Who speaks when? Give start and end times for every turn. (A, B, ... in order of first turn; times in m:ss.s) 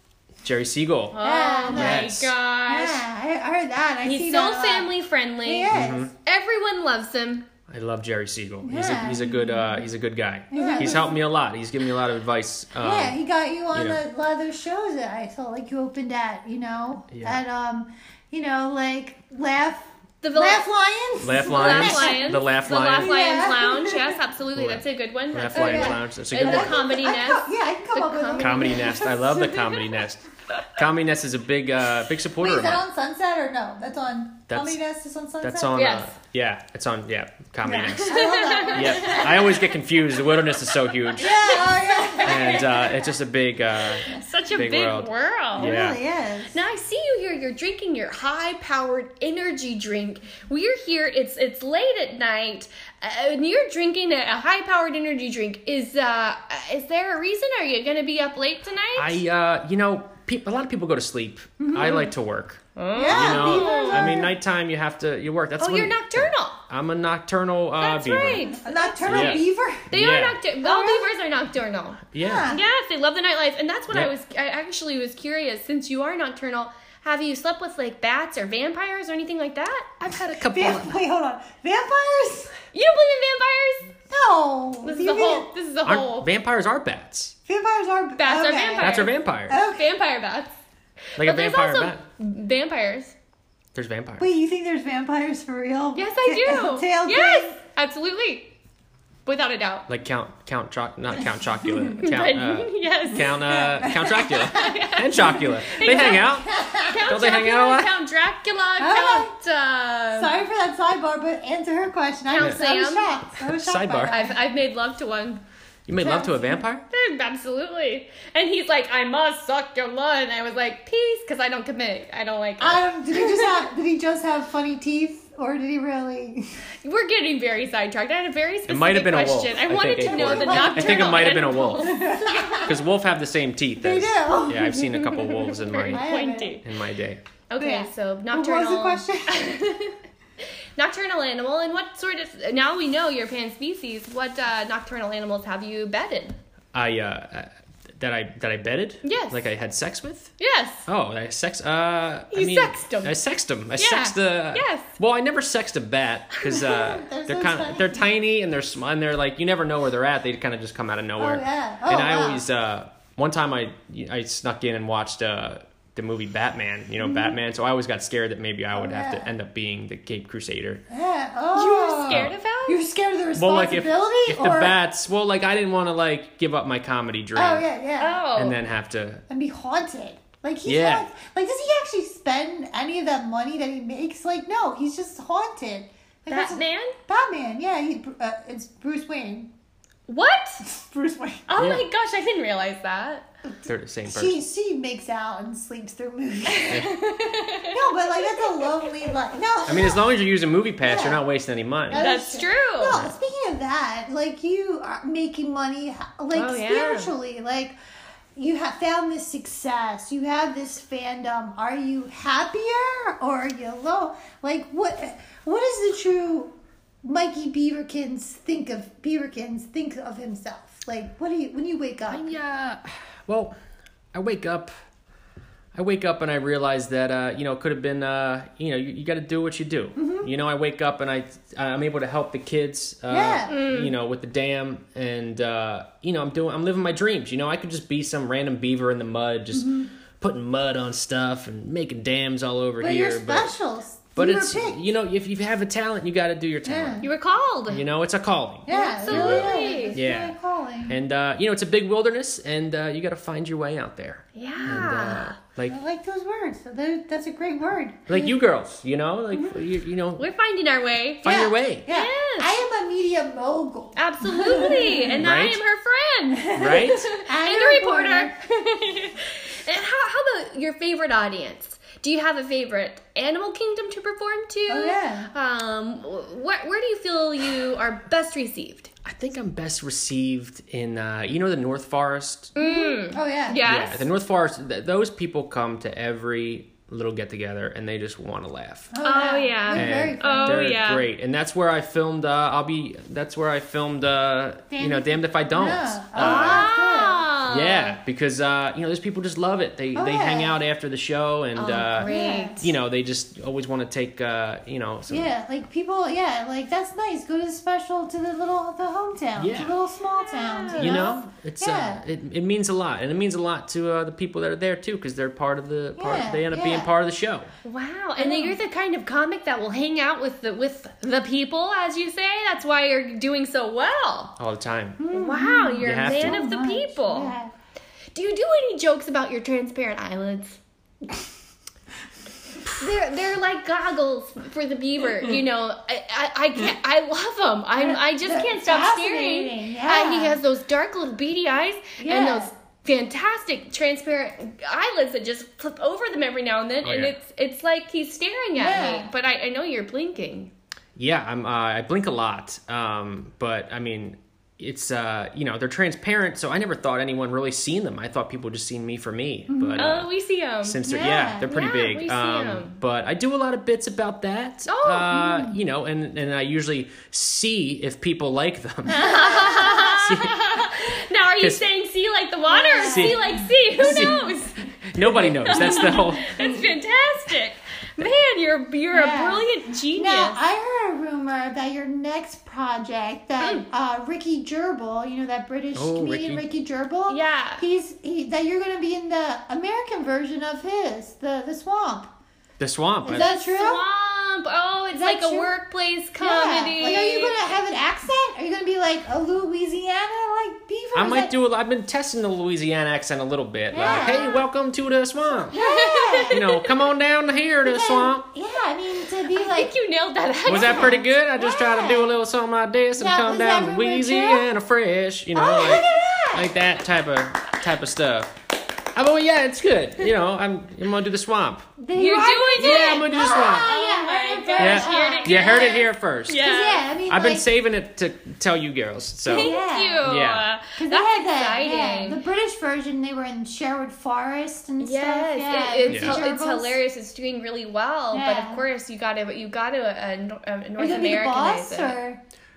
0:00.4-0:01.2 A
0:01.1-0:03.0 B
0:01.2-0:02.1 C
0:01.7-0:02.3 A
0:02.7-0:06.1 C
0:04.0-0:07.4 B
0:05.7-0:06.1 A
0:07.7-0:13.2 A
0:08.6-0:09.8 C
0:10.5-0:11.2 C
0:10.5-0:11.1 B
0:12.8-0:24.2 C
0:13.7-0:14.0 A
0:17.1-0:17.4 A
0:20.2-0:20.6 B
0:21.2-0:23.2 A
0:21.4-0:28.8 B
0:24.5-0:26.8 A
0:25.5-0:29.8 C
0:28.4-0:32.8 A
0:32.4-0:35.8 C
0:34.5-0:34.8 A
0:35.4-0:41.3 A
0:35.7-0:36.1 B
0:37.6-0:39.7 C
0:38.0-0:39.4 B
0:41.2-0:42.9 C
0:41.2-0:43.0 B
0:42.2-0:46.0 A
0:44.0-0:45.8 B
0:45.6-0:46.6 C
0:46.5-0:59.2 B
0:59.0-1:08.5 A
1:01.6-1:02.1 C
1:02.8-1:04.2 B
1:02.9-1:04.3 C
1:05.6-1:06.6 B
1:07.8-1:19.9 B
1:08.5-1:09.9 C
1:09.0-1:10.4 A
1:10.6-1:11.1 C
1:12.1-1:12.5 A
1:12.2-1:12.6 C
1:20.0-1:21.0 A
1:20.5-1:22.5 C
1:22.7-1:23.9 B
1:24.1-1:25.5 C
1:24.8-1:26.3 B
1:25.8-1:27.3 A
1:27.5-1:29.9 C
1:28.2-1:30.5 B
1:28.8-1:29.6 A
1:31.2-1:33.1 B
1:31.2-1:32.0 A
1:33.7-1:34.3 A
1:34.2-1:37.6 C
1:35.9-1:38.5 B
1:39.2-1:39.9 B
1:39.9-1:47.9 A
1:42.0-1:43.4 B
1:43.4-1:47.1 C
1:44.2-1:50.3 B
1:48.8-1:49.3 C
1:50.1-1:54.3 C
1:52.3-1:53.2 B
1:53.3-1:54.2 A
1:54.1-1:55.4 B
1:55.9-1:56.8 A
1:56.0-1:56.6 C
1:56.9-2:03.6 B
2:02.6-2:06.4 C
2:06.8-2:12.7 B
2:08.7-2:12.0 A
2:10.0-2:12.8 C
2:12.6-2:16.0 A
2:13.8-2:14.9 C
2:14.8-2:16.6 B
2:15.7-2:16.6 C
2:16.6-2:17.2 A
2:17.5-2:20.0 B
2:17.6-2:19.4 C
2:20.8-2:26.4 B
2:26.7-2:30.3 A
2:29.0-2:29.5 B
2:30.4-2:30.8 B
2:30.8-2:50.8 A
2:32.3-2:33.2 B
2:33.8-2:34.9 B
2:36.5-2:38.1 C
2:41.2-2:42.4 C
2:47.0-2:47.4 C
2:48.7-2:49.3 C
2:50.9-2:54.8 C
2:51.5-2:52.8 B
2:52.1-2:52.3 A
2:53.3-2:57.6 A
2:57.3-2:58.2 C
2:58.0-2:58.6 B
2:58.3-2:59.2 A
2:59.3-3:09.5 C
3:00.6-3:01.1 A
3:06.3-3:07.0 B
3:10.1-3:10.6 B
3:10.6-3:11.5 C
3:11.5-3:13.3 B
3:11.6-3:11.8 A
3:13.6-3:14.4 A
3:14.1-3:20.0 C
3:16.5-3:18.7 B
3:19.6-3:22.1 A
3:20.8-3:21.2 C
3:21.9-3:27.7 C
3:21.9-3:23.1 B
3:26.3-3:27.1 B
3:28.3-3:42.3 C
3:42.1-3:43.5 A
3:44.1-3:44.7 A
3:45.7-4:03.5 A
3:50.0-3:50.3 C
3:53.1-3:53.6 C
3:53.4-3:53.9 B
3:59.5-3:59.9 C
4:02.8-4:04.8 C
4:04.2-4:07.1 A
4:06.6-4:07.0 C
4:07.0-4:07.8 B
4:07.7-4:10.3 A
4:08.7-4:11.0 C
4:08.7-4:10.0 B
4:10.9-4:15.8 A
4:14.3-4:15.4 B
4:15.7-4:18.4 C
4:18.1-4:20.3 A
4:20.2-4:22.6 B
4:21.2-4:21.9 A
4:21.3-4:25.3 C
4:24.0-4:38.9 B
4:25.2-4:25.6 A
4:26.3-4:28.3 C
4:26.5-4:27.1 A
4:34.7-4:35.3 C
4:39.0-4:42.5 A
4:42.5-4:44.1 B
4:42.6-4:43.6 C
4:43.6-4:48.9 A
4:48.9-4:50.7 C
4:49.0-4:51.0 B
4:49.7-4:56.7 A
4:54.7-4:57.2 C
4:56.2-4:58.0 B
4:57.5-5:05.3 A
4:59.9-5:00.6 C
5:01.5-5:02.6 B
5:02.0-5:02.7 C
5:05.1-5:12.0 C
5:09.4-5:09.7 A
5:10.2-5:11.2 B
5:10.8-5:17.5 A
5:16.0-5:16.9 C
5:17.6-5:24.4 B
5:18.2-5:18.6 C
5:24.4-5:25.0 A
5:25.0-5:27.5 C
5:25.1-5:27.4 B
5:25.8-5:26.4 A
5:28.1-5:30.6 B
5:32.8-5:50.5 B
5:37.7-5:40.4 C
5:42.0-5:42.5 C
5:46.8-5:47.1 A
5:48.6-5:49.1 C
5:51.0-6:00.1 A
5:59.5-5:59.9 C
5:59.8-6:00.8 B
6:00.6-6:09.1 A
6:00.8-6:01.5 C
6:01.4-6:02.8 B
6:04.7-6:05.2 B
6:05.1-6:05.6 C
6:08.9-6:09.9 C
6:08.9-6:20.4 B
6:09.8-6:10.6 A
6:12.5-6:14.1 C
6:12.7-6:16.4 A
6:15.6-6:16.7 C
6:18.9-6:32.1 C
6:23.4-6:23.6 B
6:25.7-6:26.4 A
6:27.1-6:27.6 B
6:32.6-6:33.3 A
6:33.0-6:33.8 C
6:33.1-6:37.5 B
6:34.9-6:35.5 C
6:36.2-6:41.3 C
6:40.9-6:45.6 A
6:43.7-6:44.4 C
6:43.7-6:44.4 B
6:45.4-6:46.4 C
6:45.5-6:46.7 B
6:46.3-6:48.2 A
6:47.6-6:49.7 C
6:49.2-6:51.0 B
6:50.5-6:52.2 C
6:50.5-6:58.3 A
6:53.0-6:54.5 C
6:55.3-6:56.6 C
6:58.9-7:01.7 A
7:01.8-7:07.4 C
7:01.9-7:06.9 B
7:02.5-7:03.7 A
7:04.6-7:06.4 A
7:07.1-7:10.5 A
7:09.3-7:12.2 B
7:09.3-7:10.1 C
7:10.8-7:16.8 C
7:14.8-7:22.0 B
7:15.9-7:16.2 A
7:18.1-7:18.6 C
7:20.8-7:22.2 C